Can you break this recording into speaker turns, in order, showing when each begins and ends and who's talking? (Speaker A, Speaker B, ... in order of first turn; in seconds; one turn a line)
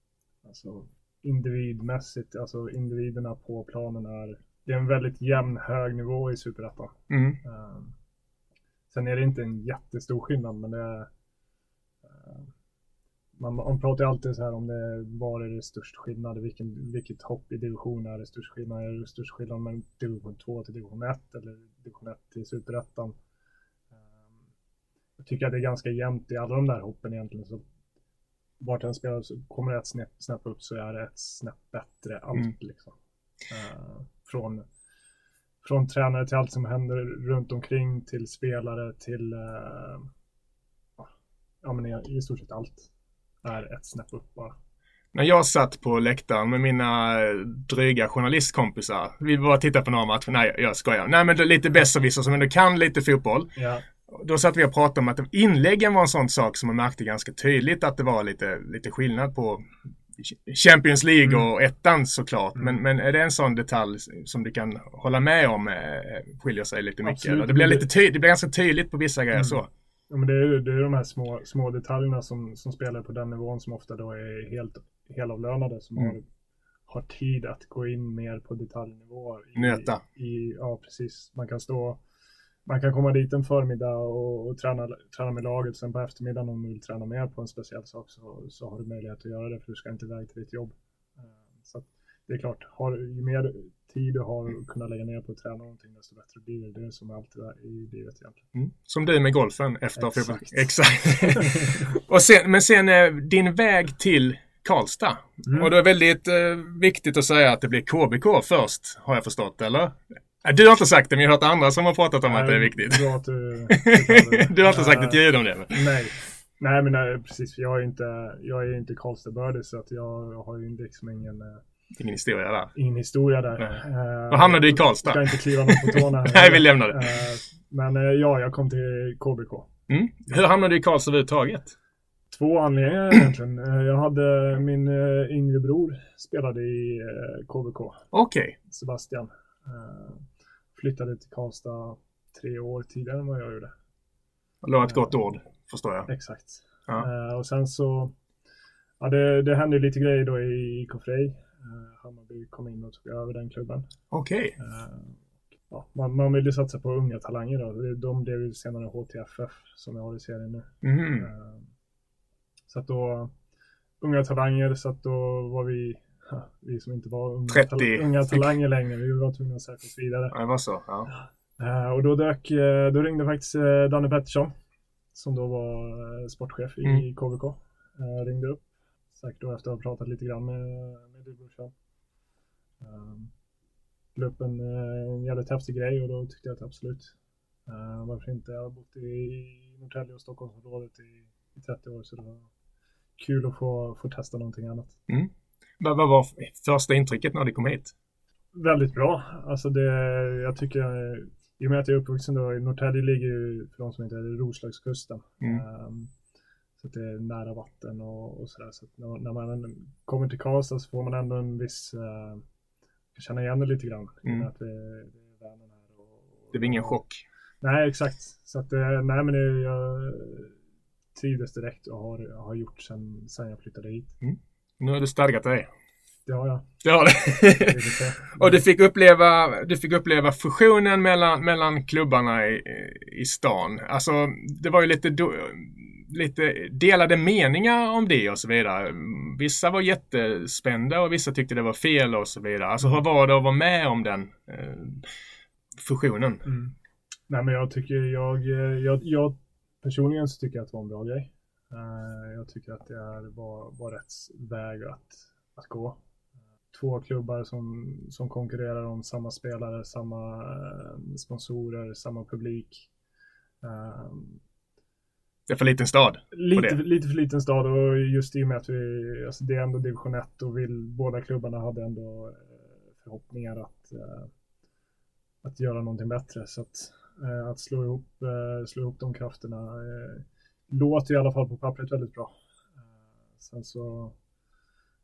Speaker A: 0.4-7.9
Speaker B: 7.1-7.4
Speaker A: 8.9-11.1
Speaker A: 12.0-12.5
Speaker A: 13.4-23.1
Speaker A: 24.0-24.3
Speaker A: 25.2-27.6
Speaker A: 28.6-33.0
Speaker A: 33.5-34.6
Speaker A: 35.6-40.1
Speaker A: 41.6-42.9
Speaker A: 43.4-44.6
Speaker B: 45.1-53.5
Speaker A: 53.5-53.8
Speaker B: 54.1-69.7
Speaker A: 67.0-67.9
Speaker A: 69.3-76.2
Speaker A: 76.9-82.0
Speaker B: 79.5-80.0
Speaker A: 82.6-98.5
Speaker B: 98.5-113.1
Speaker A: 100.0-100.7
Speaker A: 101.2-101.8
Speaker A: 105.4-105.7
Speaker A: 112.2-121.6
Speaker B: 113.7-115.8
Speaker B: 122.0-122.7
Speaker A: 122.7-129.7
Speaker B: 124.3-127.2
Speaker B: 129.9-131.7
Speaker A: 132.3-138.1
Speaker B: 138.1-138.6
Speaker A: 138.7-143.7
Speaker B: 144.6-146.1
Speaker A: 144.8-145.1
Speaker A: 146.1-148.1
Speaker A: 149.0-153.9
Speaker B: 154.1-154.5
Speaker A: 154.6-161.7
Speaker B: 160.8-161.3
Speaker A: 162.7-163.3
Speaker A: 164.0-170.3
Speaker B: 167.5-168.4
Speaker B: 170.3-171.1
Speaker A: 171.1-174.5
Speaker A: 175.1-181.7
Speaker A: 182.8-183.3
Speaker A: 184.1-187.1
Speaker A: 187.7-192.5
Speaker A: 193.2-195.0
Speaker B: 195.1-197.9
Speaker A: 198.5-206.1
Speaker A: 206.8-212.4
Speaker A: 213.1-217.0
Speaker B: 216.5-217.2
Speaker A: 217.6-220.6
Speaker A: 221.1-224.1
Speaker B: 224.2-225.7
Speaker A: 226.2-226.7
Speaker B: 226.8-245.1
Speaker A: 227.4-228.6
Speaker B: 245.8-246.4
Speaker A: 246.4-246.7
Speaker A: 247.3-256.0
Speaker A: 256.7-262.9
Speaker A: 263.6-264.4
Speaker B: 265.5-266.8
Speaker A: 266.3-274.3
Speaker A: 275.4-282.3
Speaker A: 283.4-284.2